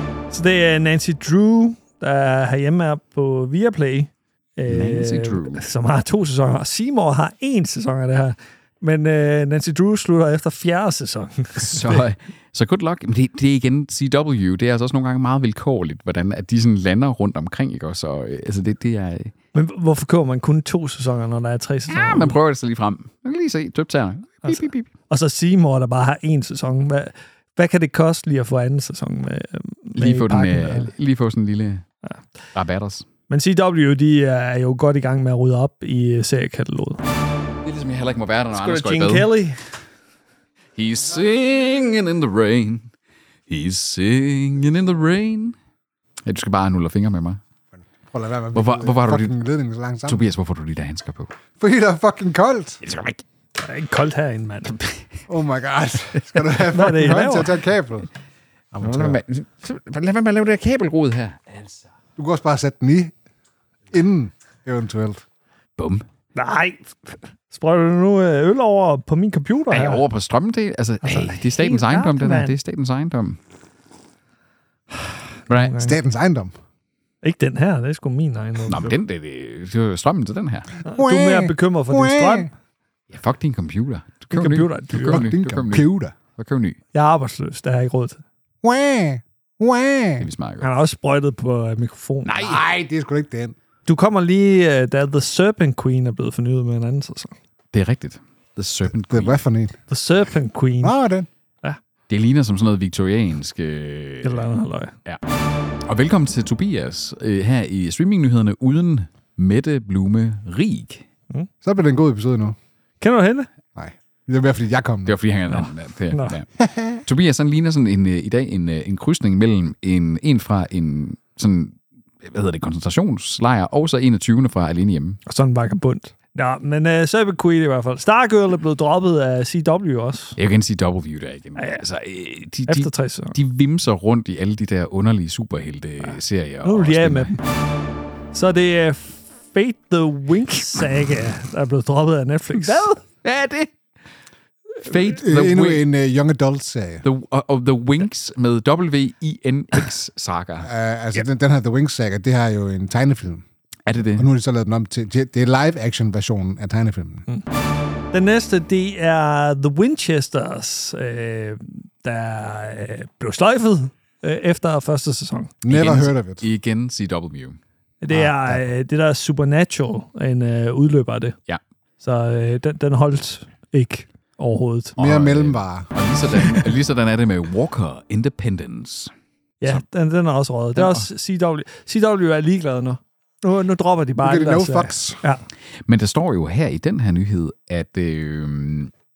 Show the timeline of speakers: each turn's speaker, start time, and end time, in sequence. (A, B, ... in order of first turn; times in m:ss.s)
0:00.3-0:12.0 A
0:04.7-0:05.6 B
0:11.6-0:19.3 B
0:19.5-0:22.4 A
0:21.9-0:24.9 B
0:24.4-0:30.9 A
0:29.9-0:31.8 B
0:32.5-0:33.0 B
0:33.3-0:37.0 A
0:37.6-0:39.3 B
0:38.5-0:39.6 A
0:40.8-0:42.9 B
0:43.5-0:45.6 B
0:46.2-0:47.4 B
0:48.1-0:50.2 C
0:48.5-0:49.3 B
0:50.1-0:51.3 B
0:51.6-0:52.8 C
0:52.8-0:53.2 B
0:53.6-0:54.8 A
0:54.7-0:55.0 B
0:55.3-0:58.1 C
0:56.7-0:57.5 A
0:58.7-0:59.2 C
0:58.8-1:01.8 B
1:02.2-1:03.1 C
1:03.9-1:05.2 C
1:05.8-1:06.0 B
1:06.4-1:10.0 A
1:09.7-1:13.4 B
1:11.0-1:12.5 A
1:15.5-1:15.8 B
1:15.5-1:15.9 A
1:15.8-1:16.5 C
1:17.2-1:19.0 A
1:18.7-1:20.7 B
1:20.8-1:22.5 A
1:21.0-1:22.5 C
1:23.1-1:26.8 B
1:24.3-1:25.3 A
1:25.0-1:26.1 C
1:26.9-1:28.2 A
1:28.6-1:30.3 C
1:30.2-1:30.7 B
1:30.6-1:32.4 A
1:32.2-1:32.6 B
1:32.4-1:33.5 C
1:33.9-1:37.4 A
1:37.7-1:39.4 B
1:39.1-1:39.8 C
1:39.9-1:40.9 A
1:40.8-1:41.3 C
1:42.1-1:44.5 B
1:44.2-1:44.9 A
1:45.8-1:51.0 B
1:51.6-1:52.6 C
1:53.0-1:53.5 A
1:53.8-1:55.1 C
1:55.0-1:56.5 B
1:55.5-1:56.4 A
1:56.6-1:57.0 C
1:57.0-2:05.2 B
2:05.2-2:10.4 A
2:10.4-2:17.4 B
2:11.6-2:11.8 A
2:12.7-2:13.4 A
2:16.6-2:17.4 A
2:18.3-2:23.0 A
2:22.5-2:23.7 B
2:24.8-2:25.8 B
2:25.0-2:27.0 C
2:27.0-2:30.7 B
2:30.6-2:33.4 C
2:33.9-2:34.3 B
2:34.2-2:37.2 C
2:38.1-2:45.5 A
2:45.6-2:46.4 C
2:45.7-2:47.6 B
2:48.0-2:51.4 A
2:52.0-2:55.0 A
2:55.0-2:55.9 C
2:55.0-2:59.1 B
2:59.6-3:05.4 A
3:00.8-3:01.0 B
3:04.2-3:05.2 C
3:05.9-3:08.9 B